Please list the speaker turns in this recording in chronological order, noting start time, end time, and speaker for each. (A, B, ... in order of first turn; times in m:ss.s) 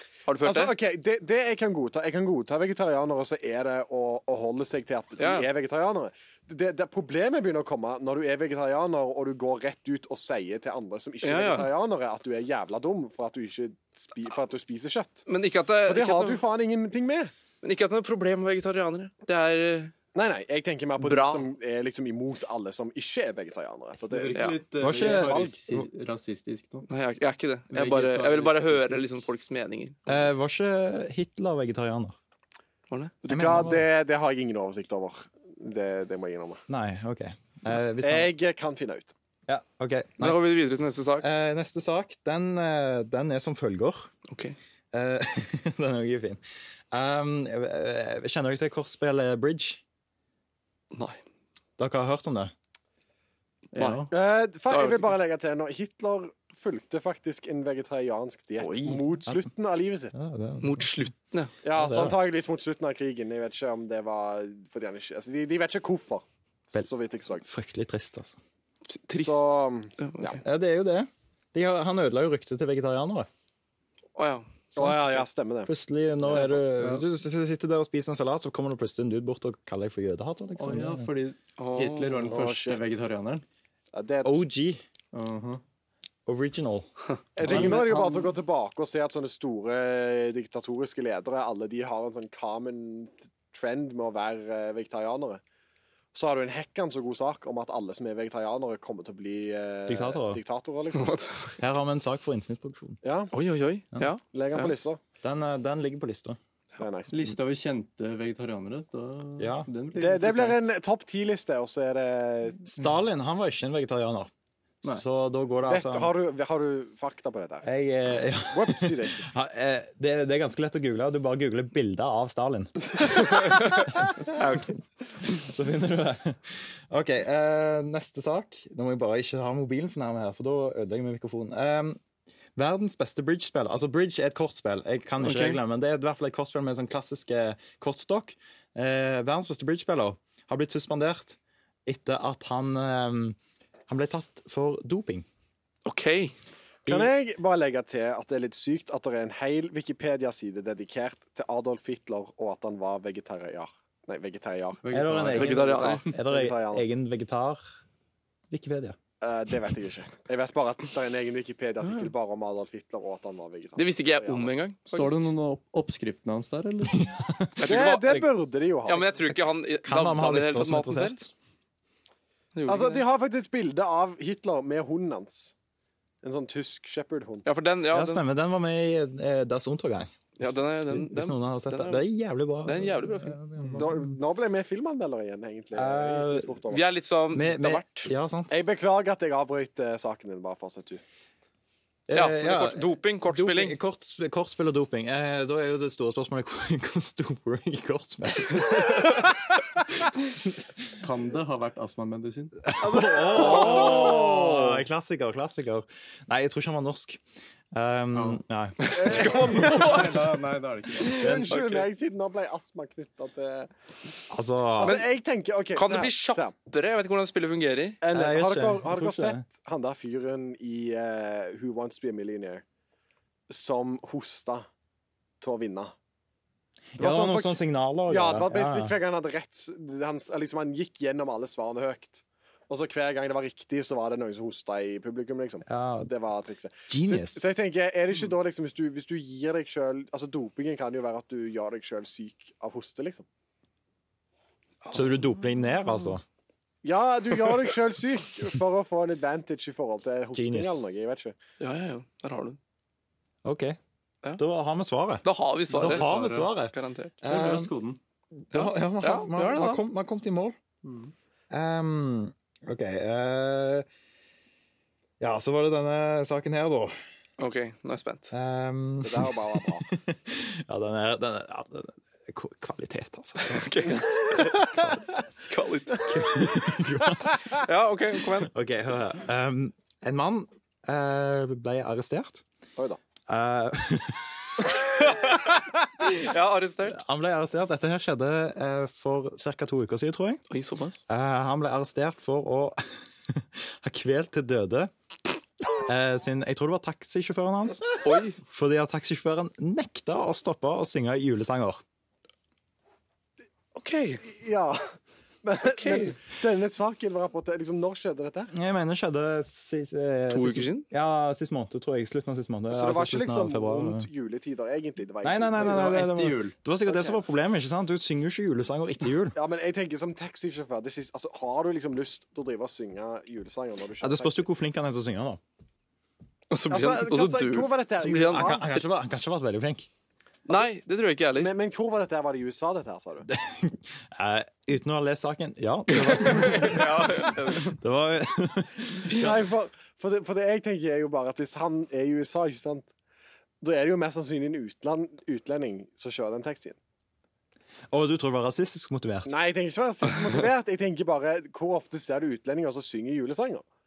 0:00.2-0:00.7 A
0:00.4-0:15.2 B
0:05.2-0:05.5 A
0:11.2-0:11.7 A
0:15.3-0:16.4 A
0:15.8-0:17.3 B
0:17.6-0:19.9 A
0:20.1-0:25.6 B
0:21.0-0:21.5 A
0:24.1-0:26.9 C
0:24.8-0:25.8 D
0:26.9-0:30.2 A
0:27.7-0:29.2 C
0:30.1-0:32.2 D
0:32.9-0:33.3 A
0:33.3-0:33.9 D
0:33.3-0:36.6 B
0:36.7-0:38.3 D
0:38.0-0:39.1 B
0:39.5-0:40.5 D
0:40.2-0:41.3 A
0:41.2-0:44.1 D
0:44.3-0:44.6 A
0:44.9-0:46.4 D
0:46.9-0:49.8 D
0:50.9-0:51.2 A
0:51.8-0:52.5 D
0:53.7-0:54.1 C
0:54.1-1:00.1 B
0:54.7-0:55.1 A
0:58.6-0:59.0 A
1:00.1-1:01.0 D
1:00.6-1:01.5 A
1:01.6-1:07.4 B
1:01.7-1:02.2 D
1:07.4-1:08.4 D
1:08.9-1:10.4 A
1:09.1-1:10.4 B
1:10.4-1:13.3 D
1:14.2-1:14.4 A
1:14.8-1:15.7 B
1:14.8-1:15.0 D
1:15.7-1:21.1 D
1:16.2-1:17.0 C
1:20.6-1:23.4 C
1:21.6-1:22.4 A
1:22.3-1:22.8 B
1:23.9-1:24.4 B
1:24.2-1:24.8 D
1:25.1-1:25.6 C
1:26.2-1:26.9 D
1:27.4-1:35.4 B
1:27.4-1:28.3 C
1:27.4-1:27.8 D
1:36.1-1:41.2 B
1:39.9-1:40.4 D
1:40.9-1:41.6 A
1:41.6-1:43.0 D
1:43.0-1:43.3 B
1:43.3-1:44.7 A
1:44.3-1:45.0 B
1:45.2-1:46.4 D
1:46.8-1:47.1 B
1:47.1-1:50.7 C
1:49.4-1:49.7 D
1:49.9-1:52.7 B
1:52.6-1:54.3 D
1:54.8-1:56.1 D
1:55.6-1:57.7 B
1:57.6-2:04.1 D
1:58.5-1:59.3 B
2:03.1-2:04.7 A
2:05.2-2:12.0 D
2:12.6-2:23.4 D
2:15.2-2:15.6 A
2:23.9-2:25.2 D
2:25.8-2:26.3 A
2:26.8-2:27.1 D
2:26.8-2:36.8 B
2:34.8-2:36.1 C
2:34.9-2:37.6 D
2:35.3-2:36.0 A
2:38.5-2:39.0 D
2:39.2-2:44.5 B
2:41.8-2:42.1 A
2:43.8-2:45.3 A
2:44.9-2:47.0 C
2:46.9-2:47.7 D
2:47.6-2:48.3 A
2:47.6-2:49.2 B
2:48.9-2:51.2 A
2:49.8-2:51.3 D
2:52.5-2:53.0 A
2:52.6-2:55.5 B
2:56.2-2:57.4 B
2:57.4-2:58.2 A
2:57.9-3:04.2 D
3:00.4-3:02.0 A
3:02.6-3:03.4 A
3:03.7-3:06.8 B
3:05.7-3:06.6 D
3:06.7-3:08.1 A
3:07.3-3:08.6 D
3:08.5-3:11.0 B
3:12.1-3:19.2 D
3:12.1-3:13.8 A
3:21.0-3:22.7 C
3:22.6-3:27.2 D
3:22.8-3:24.4 B
3:23.3-3:24.7 A
3:27.7-3:29.5 D
3:28.1-3:31.3 C
3:28.8-3:30.2 A
3:28.9-3:30.1 B
3:31.0-3:33.7 B
3:31.1-3:31.6 D
3:31.5-3:31.8 A
3:34.3-3:35.0 D
3:34.8-3:36.5 B
3:34.8-3:35.1 A
3:35.7-3:38.0 A
3:38.0-3:42.6 B
3:38.1-3:39.4 D
3:43.5-3:44.7 B
3:45.4-3:45.9 B
3:47.0-3:49.0 D
3:47.0-4:03.2 B
3:55.6-3:56.1 D
3:56.9-3:57.4 D
4:04.9-4:06.2 D
4:06.8-4:11.3 B
4:10.3-4:10.8 D
4:11.6-4:12.6 A
4:13.4-4:13.8 D
4:14.4-4:17.7 D
4:15.2-4:17.2 A
4:15.7-4:16.5 C
4:17.2-4:18.0 C
4:18.4-4:20.6 D
4:18.5-4:19.8 A
4:20.8-4:21.1 C
4:21.5-4:23.9 D
4:25.2-4:26.9 D
4:27.4-4:28.3 A
4:28.3-4:33.6 D
4:29.0-4:29.9 B
4:33.4-4:36.2 A
4:34.4-4:34.9 B
4:36.0-4:37.4 D
4:37.6-4:38.5 A
4:38.4-4:42.4 D
4:43.3-4:44.7 D
4:44.9-4:47.0 A
4:46.9-4:50.4 D
4:50.5-4:51.0 A
4:51.1-4:54.9 D
4:55.7-5:01.8 D
4:58.0-4:58.4 A
5:03.7-5:04.2 A
5:04.2-5:04.8 B
5:05.4-5:08.5 B
5:05.6-5:06.1 A
5:08.5-5:14.1 D
5:10.3-5:10.8 A
5:12.7-5:16.0 B
5:15.2-5:19.4 D
5:15.6-5:16.5 C
5:16.9-5:17.2 B
5:19.3-5:24.4 B
5:24.0-5:25.4 D
5:26.5-5:28.8 A
5:26.7-5:28.7 B
5:28.0-5:29.9 D
5:30.5-5:31.5 A
5:31.4-5:33.3 B
5:33.3-5:39.4 D
5:35.9-5:37.7 A
5:39.1-5:42.9 B
5:43.6-5:46.8 B
5:47.9-5:49.3 D
5:49.2-5:53.6 B